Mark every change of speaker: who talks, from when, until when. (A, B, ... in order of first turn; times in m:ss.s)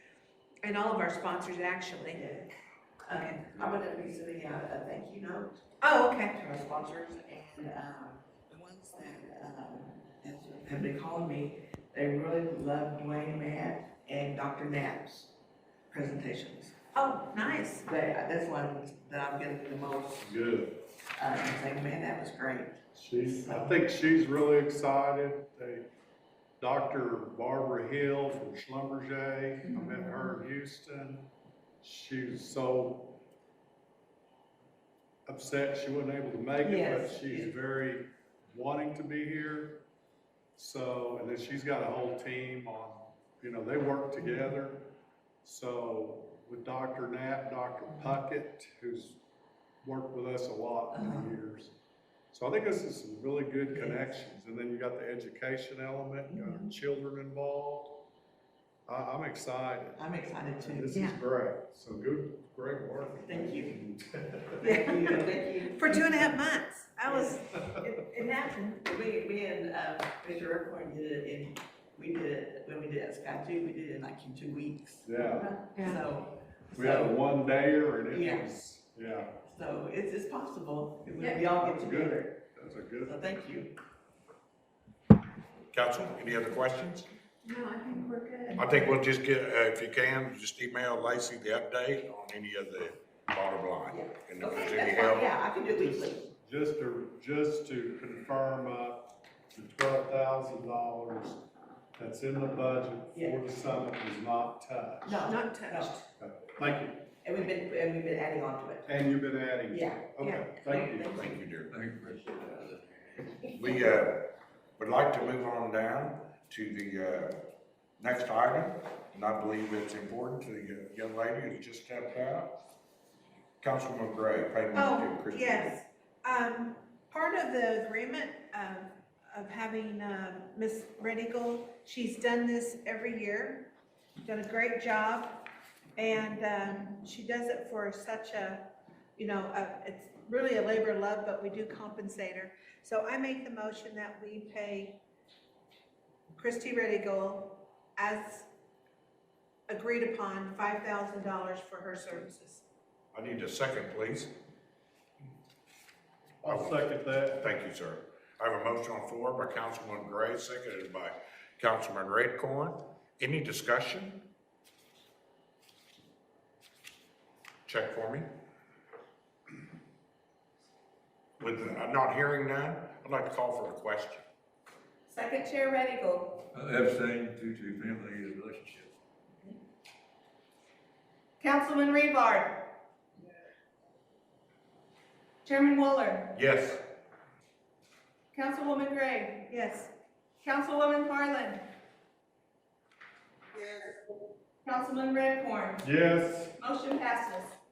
0:00.6-0:02.2 A
0:02.1-0:02.5 B
0:03.0-0:05.6 B
0:03.1-0:03.4 A
0:05.8-0:06.4 A
0:06.3-0:15.3 B
0:15.9-0:16.7 B
0:16.9-0:17.9 A
0:17.8-0:20.3 B
0:20.2-0:20.8 C
0:21.2-0:23.8 B
0:22.9-0:25.8 C
0:26.6-0:31.3 C
0:29.7-0:30.2 B
0:31.8-0:33.2 C
0:35.2-0:39.8 C
0:36.6-0:37.5 B
0:40.6-0:49.2 C
0:49.8-0:51.7 C
0:50.9-0:51.3 B
0:52.3-0:58.1 C
0:53.7-0:54.1 B
0:56.3-0:56.7 B
0:58.9-1:00.0 C
0:59.9-1:01.0 B
1:00.6-1:04.6 C
1:00.9-1:01.2 A
1:03.2-1:03.8 B
1:04.6-1:06.2 B
1:04.6-1:08.9 A
1:07.0-1:07.4 B
1:08.8-1:17.2 B
1:15.0-1:15.6 C
1:15.7-1:16.0 A
1:16.7-1:19.3 C
1:18.1-1:18.5 B
1:19.4-1:22.4 B
1:21.6-1:23.2 C
1:23.0-1:23.7 B
1:25.7-1:27.1 D
1:27.4-1:28.8 A
1:28.6-1:35.3 D
1:33.9-1:36.3 B
1:36.4-1:45.2 C
1:43.1-1:43.5 B
1:45.0-1:46.0 B
1:45.2-1:46.1 A
1:46.2-1:47.1 C
1:46.6-1:48.9 B
1:48.8-1:51.1 C
1:49.7-1:51.4 B
1:50.2-1:50.5 A
1:51.0-1:51.7 D
1:51.7-1:52.8 E
1:53.6-1:57.4 D
1:58.0-2:02.6 D
2:03.6-2:05.7 D
2:04.7-2:13.7 A
2:14.2-2:25.0 A
2:26.4-2:28.5 A
2:29.7-2:32.6 A
2:33.1-2:34.3 D
2:36.4-2:37.4 C
2:36.4-2:36.8 D
2:37.4-2:44.3 D
2:47.7-2:48.2 D
2:51.4-2:54.2 D
2:55.1-2:56.5 F
2:56.5-2:58.9 E
3:01.4-3:02.6 F
3:05.4-3:06.3 F
3:06.3-3:06.8 D
3:08.3-3:09.9 F
3:10.4-3:11.6 F
3:13.6-3:14.0 F
3:14.6-3:15.9 F
3:15.8-3:16.6 C
3:16.6-3:17.5 F